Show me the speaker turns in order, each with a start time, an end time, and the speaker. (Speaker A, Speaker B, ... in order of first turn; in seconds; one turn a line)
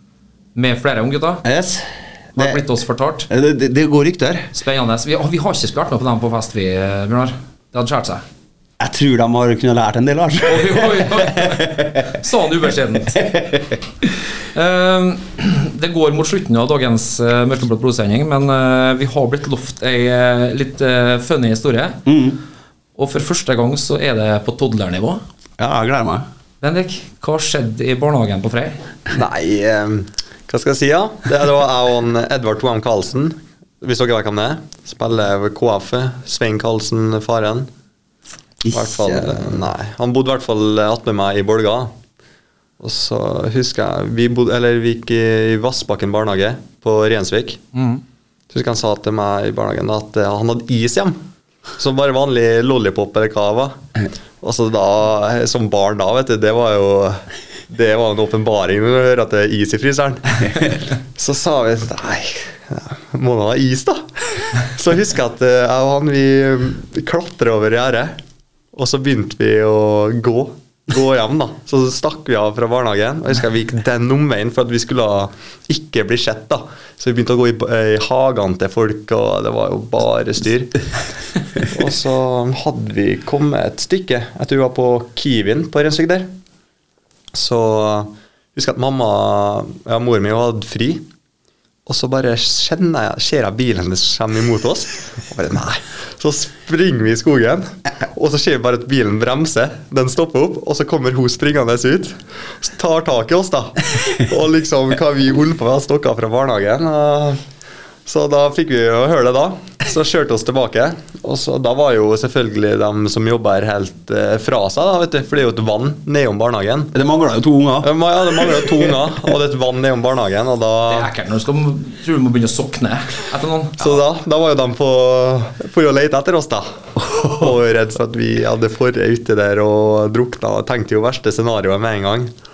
Speaker A: 0.5-1.4
Speaker B: 1.4-2.6
Speaker A: 2.4-3.3
Speaker B: 3.3-4.5
Speaker A: 4.5-8.2
Speaker B: 8.8-12.2
Speaker A: 10.4-13.2
Speaker B: 13.1-13.8
Speaker A: 14.5-22.1
Speaker B: 22.1-22.4
Speaker A: 23.0-25.2
Speaker B: 25.6-26.2
Speaker A: 26.6-28.8
Speaker C: 29.1-37.7
Speaker B: 38.6-39.6
Speaker C: 38.7-41.9
Speaker C: 42.8-47.6
Speaker A: 47.7-48.0
Speaker C: 48.5-51.2
Speaker C: 51.8-53.8
Speaker C: 54.4-68.2
Speaker C: 68.7-80.8
Speaker C: 81.6-86.3
Speaker C: 87.3-91.0
Speaker C: 91.9-107.4
Speaker C: 108.1-116.9
Speaker B: 116.9-119.0
Speaker C: 117.8-121.1
Speaker A: 120.9-124.0
Speaker C: 123.8-132.3
Speaker B: 127.0-127.5